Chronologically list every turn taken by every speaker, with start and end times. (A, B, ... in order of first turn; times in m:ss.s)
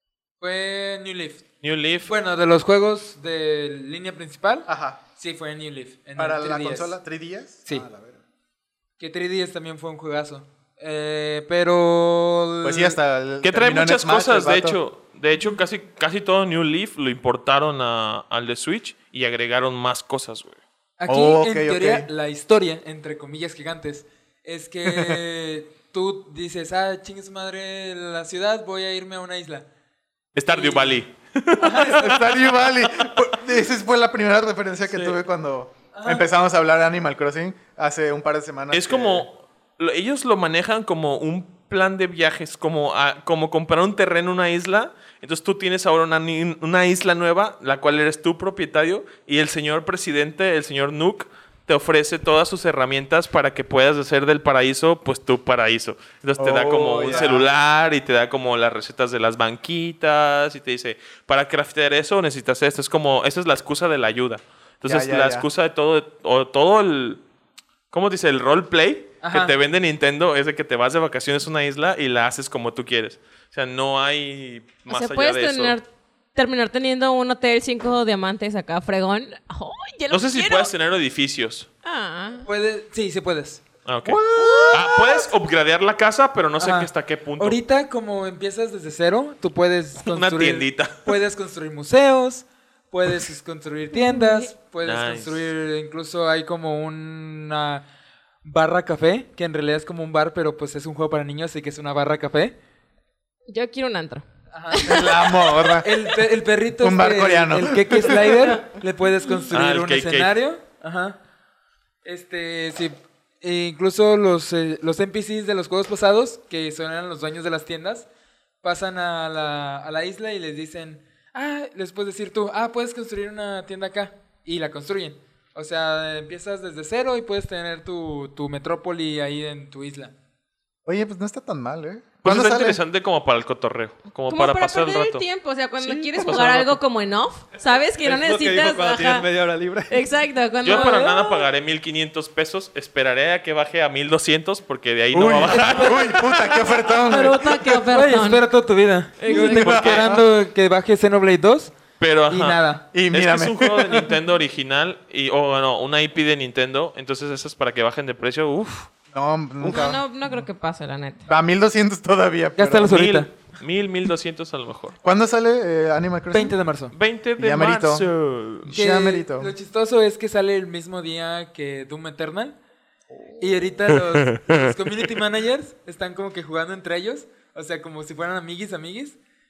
0:00.4-0:01.4 A
0:01.6-0:02.1 B
0:02.0-0:07.0 A
0:04.7-0:05.0 C
0:06.2-0:08.2 C
0:09.0-0:13.0 A
0:12.6-0:14.8 C
0:13.4-0:20.6 B
0:21.0-0:29.6 A
0:21.1-0:22.1 C
0:24.9-0:25.2 C
0:30.3-0:32.4 B
0:30.5-0:31.0 A
0:31.6-0:32.2 A
0:31.8-0:39.3 C
0:34.9-0:35.2 B
0:35.9-0:36.3 A
0:38.7-1:07.2 B
0:56.4-0:57.5 C
1:04.8-1:05.5 C
1:07.9-1:15.8 B
1:09.2-1:09.5 A
1:14.9-1:20.7 D
1:20.1-1:21.7 B
1:21.8-1:22.5 D
1:22.4-1:23.6 A
1:23.8-1:24.2 B
1:24.0-1:25.3 C
1:24.7-1:27.6 B
1:26.6-1:37.8 A
1:30.0-1:30.9 B
1:34.0-1:34.5 D
1:34.8-1:35.5 B
1:38.4-1:42.5 A
1:43.5-1:45.8 D
1:44.5-1:44.8 A
1:44.8-1:45.9 C
1:45.8-1:51.2 A
1:46.8-1:48.3 C
1:49.5-1:50.3 B
1:52.0-1:58.1 A
1:58.6-2:10.1 A
2:10.8-2:12.8 C
2:12.2-2:15.2 B
2:14.3-2:19.3 D
2:15.8-2:16.8 B
2:17.9-2:20.0 E
2:19.9-2:21.4 D
2:20.6-2:26.7 B
2:20.7-2:21.0 A
2:25.1-2:27.6 C
2:27.0-2:28.4 D
2:27.9-2:31.7 A
2:29.2-2:29.8 D
2:29.3-2:30.2 C
2:29.4-2:30.1 B
2:32.0-2:32.6 B
2:32.3-2:32.8 A
2:32.9-2:34.1 C
2:33.1-2:38.9 B
2:39.1-2:40.0 C
2:39.6-2:41.2 D
2:41.3-2:43.0 C
2:42.6-2:43.3 A
2:42.9-2:44.9 B
2:45.0-2:46.6 C
2:46.3-2:46.9 A
2:46.9-2:48.7 B
2:47.4-2:48.1 C
2:48.6-2:49.5 C
2:48.7-2:52.6 A
2:53.4-2:59.2 A
2:54.1-2:54.7 B